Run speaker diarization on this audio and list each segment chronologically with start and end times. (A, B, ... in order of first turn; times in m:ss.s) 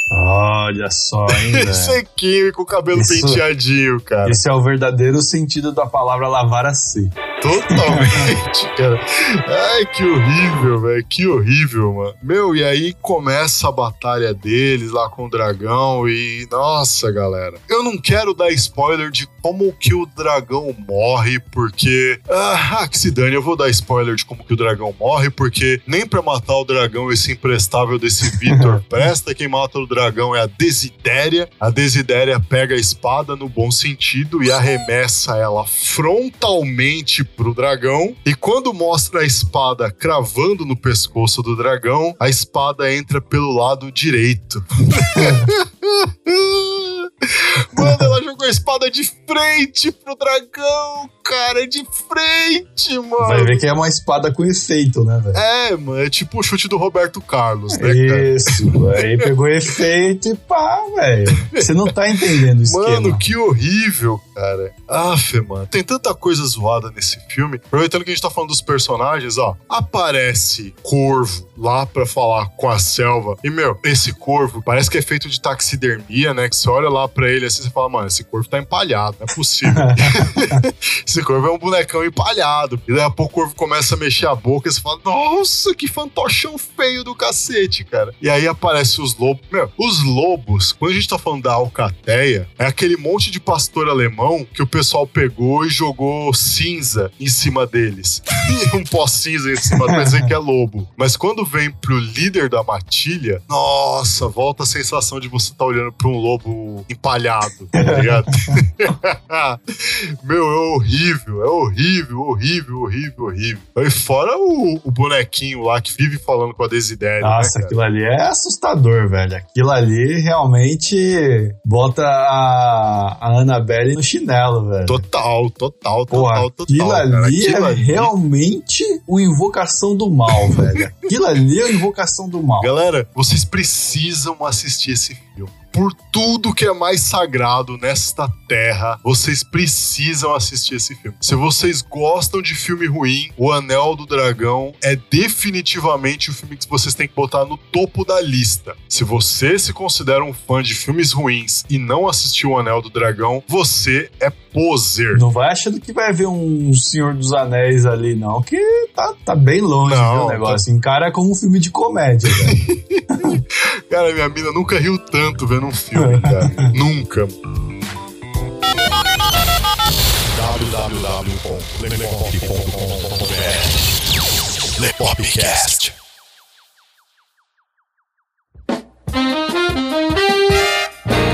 0:00.1-0:02.0 A
0:01.3-0:04.4 B
0:02.9-0:03.4 A
0:04.2-0:08.3 A
0:07.4-0:53.6 B
0:28.5-0:28.8 A
0:45.1-0:45.5 A
0:47.8-0:48.1 A
0:53.2-0:55.4 A
0:55.3-0:59.3 B
0:57.7-1:03.2 A
1:01.4-1:01.7 B
1:02.6-1:57.8 B
1:19.7-1:20.6 A
1:39.7-1:40.3 A
1:47.8-1:48.6 A
1:57.2-2:05.1 A
2:04.9-2:08.1 B
2:06.1-2:12.7 A
2:10.4-2:10.7 B
2:12.6-2:35.2 B
2:35.1-2:42.6 A
2:39.8-2:40.6 B
2:42.3-2:47.4 B
2:46.0-2:46.7 A
2:50.3-2:53.8 B
2:54.8-2:56.0 B